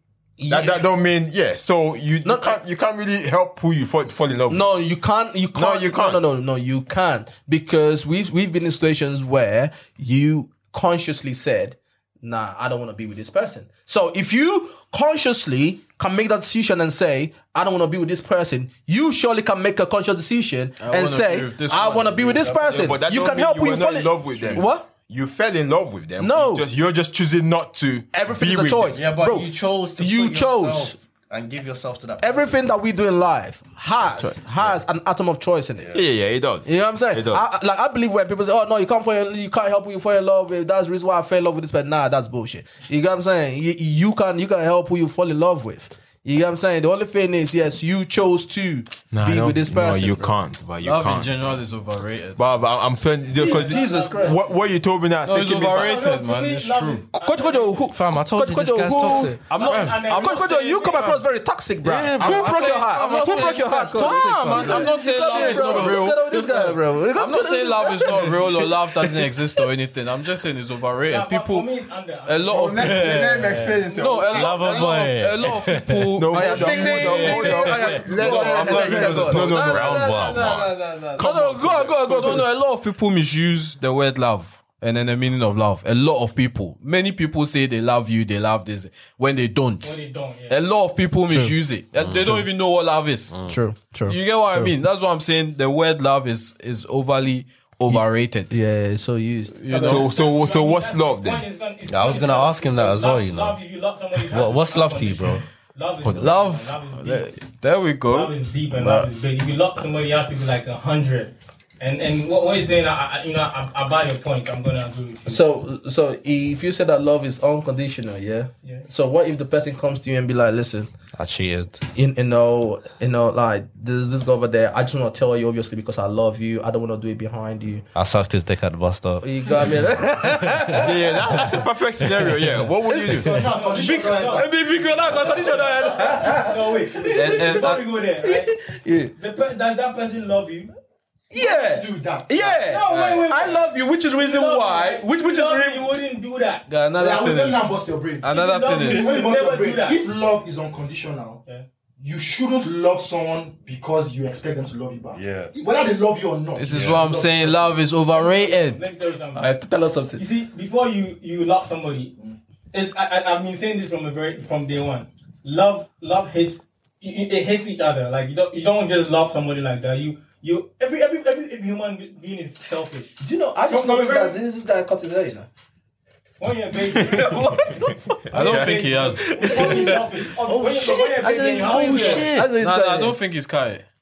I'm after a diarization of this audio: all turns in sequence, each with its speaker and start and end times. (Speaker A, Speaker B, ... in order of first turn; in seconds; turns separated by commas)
Speaker A: 0.4-0.8, Speaker B: 0.5-4.6, Speaker A: 2.2-2.6, Speaker A: 4.5-24.9, Speaker B: 5.5-6.2, Speaker C: 20.8-22.7, Speaker B: 22.6-29.0, Speaker A: 26.2-26.6, Speaker A: 28.1-30.9, Speaker D: 28.9-32.6, Speaker A: 32.2-36.0, Speaker B: 34.2-34.7, Speaker B: 35.9-37.4, Speaker A: 36.6-50.3, Speaker B: 49.1-51.4, Speaker C: 50.8-52.5, Speaker B: 52.4-56.0, Speaker A: 53.3-54.4, Speaker E: 53.4-54.6, Speaker C: 55.2-57.0, Speaker E: 55.7-57.9, Speaker A: 57.1-59.5, Speaker D: 57.9-60.0, Speaker C: 59.4-61.1, Speaker E: 59.5-61.1, Speaker A: 60.1-69.3, Speaker D: 61.8-64.9, Speaker C: 62.2-71.7, Speaker B: 65.3-65.6, Speaker E: 71.1-72.8, Speaker C: 72.2-93.4, Speaker B: 72.5-75.0, Speaker F: 73.6-74.3, Speaker D: 74.3-76.0, Speaker B: 76.2-82.5, Speaker A: 76.3-79.7, Speaker D: 79.7-80.6, Speaker A: 81.2-82.5, Speaker E: 89.8-90.6, Speaker A: 91.3-91.5, Speaker D: 91.9-92.4, Speaker D: 93.3-93.6, Speaker A: 93.4-94.7, Speaker C: 94.0-98.5, Speaker A: 97.9-99.9, Speaker C: 99.5-100.1, Speaker E: 99.7-107.3, Speaker B: 99.8-101.4, Speaker D: 101.9-103.6, Speaker D: 104.2-105.4, Speaker C: 106.1-109.1, Speaker E: 108.1-115.4, Speaker A: 115.3-120.9, Speaker D: 121.2-121.8, Speaker A: 121.9-127.8, Speaker D: 127.9-130.9, Speaker A: 129.2-131.6, Speaker B: 130.8-133.4, Speaker A: 132.9-139.1, Speaker F: 133.2-136.2, Speaker E: 133.5-134.5, Speaker E: 135.2-138.5, Speaker C: 137.1-137.8, Speaker E: 139.1-140.7, Speaker A: 141.3-146.0, Speaker F: 141.3-142.5, Speaker E: 142.6-146.7, Speaker C: 142.8-143.3, Speaker C: 146.7-149.2, Speaker F: 146.9-151.4, Speaker E: 148.3-150.0, Speaker F: 152.0-157.8, Speaker D: 155.1-155.5, Speaker C: 156.6-158.9, Speaker D: 156.7-157.0, Speaker E: 158.1-159.5, Speaker A: 159.3-160.2, Speaker E: 160.2-162.1, Speaker E: 162.7-174.4, Speaker A: 173.2-175.5, Speaker E: 176.4-177.7, Speaker B: 176.8-179.8, Speaker A: 177.1-177.9, Speaker E: 178.3-182.3, Speaker C: 178.3-179.7, Speaker A: 179.5-183.2, Speaker D: 181.6-182.6, Speaker C: 182.4-183.8